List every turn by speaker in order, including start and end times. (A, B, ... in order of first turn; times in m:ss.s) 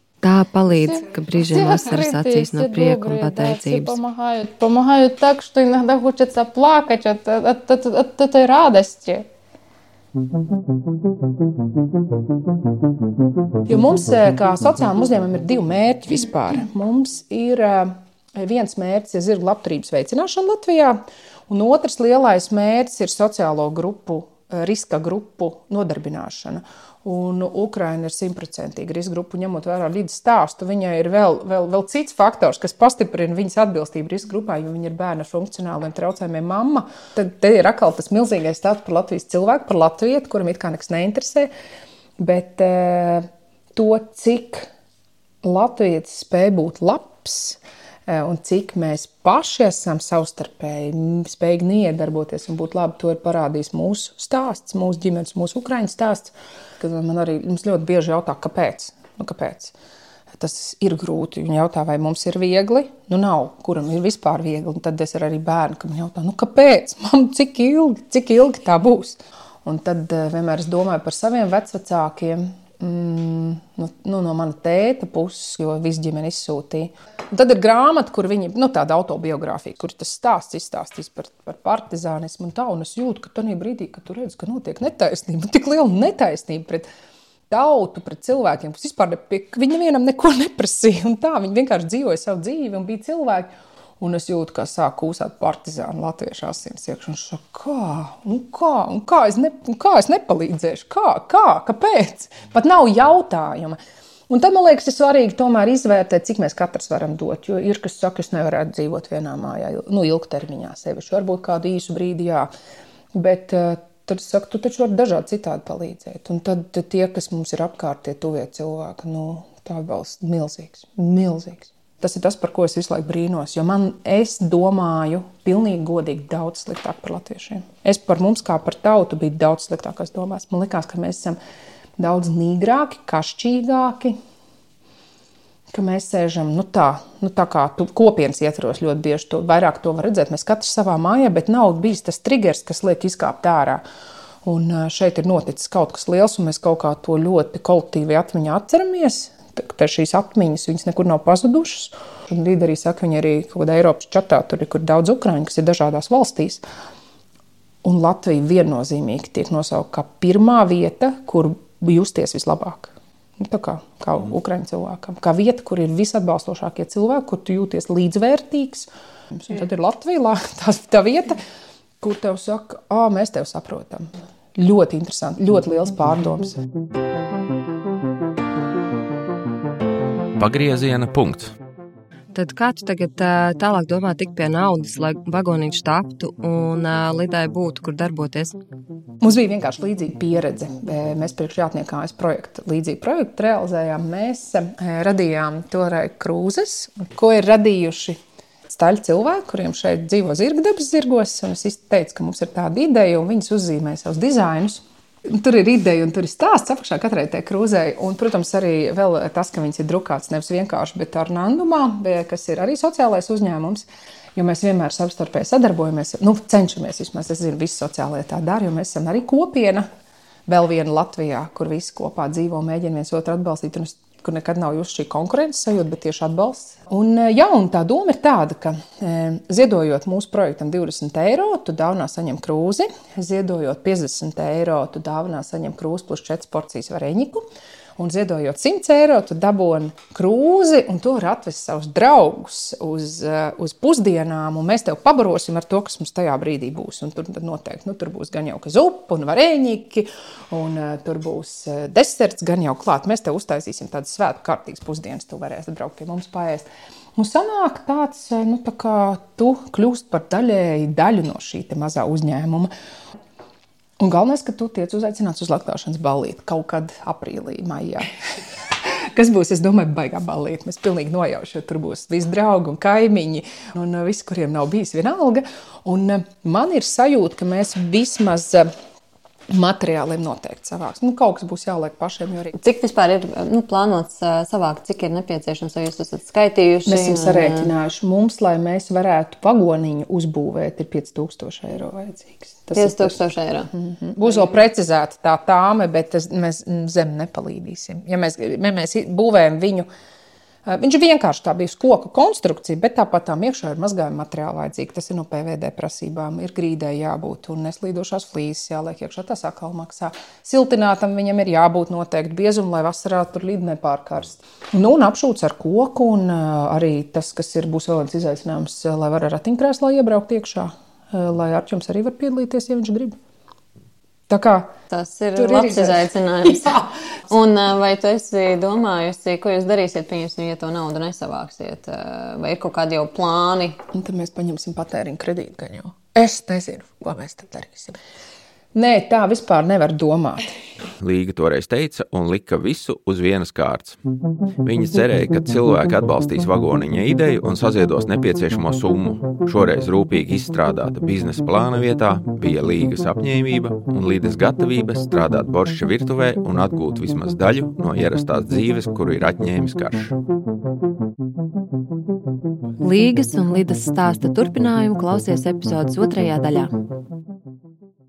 0:00.2-0:04.0 A
0:00.7-0:09.3 B
0:13.7-0:41.5 C
0:42.2-0:44.7 C
0:45.4-0:59.7 C
1:00.4-1:26.9 C
1:27.5-1:43.8 C
1:44.3-1:52.5 C
1:53.1-2:11.4 C
2:12.0-2:14.2 C
2:15.7-2:23.8 C
2:24.4-2:36.6 C
2:37.8-2:51.4 C
2:52.0-2:56.6 C
3:00.4-3:01.5 D
3:02.3-3:08.6 A
3:09.2-3:39.9 C
3:40.5-3:57.4 C
3:58.0-4:22.7 C
4:24.0-4:28.1 C
4:28.8-4:38.7 C
4:39.5-4:42.6 C
4:42.6-4:47.7 E
4:46.9-4:53.2 C
4:52.8-4:53.7 E
4:53.7-4:59.9 C
5:00.7-5:23.2 C
5:24.3-5:24.7 C
5:24.9-5:33.8 E
5:25.4-5:26.9 C
5:33.9-5:38.0 C
5:38.7-5:40.6 C
5:41.0-5:44.0 D
5:44.6-6:00.1 D
6:02.8-6:06.7 A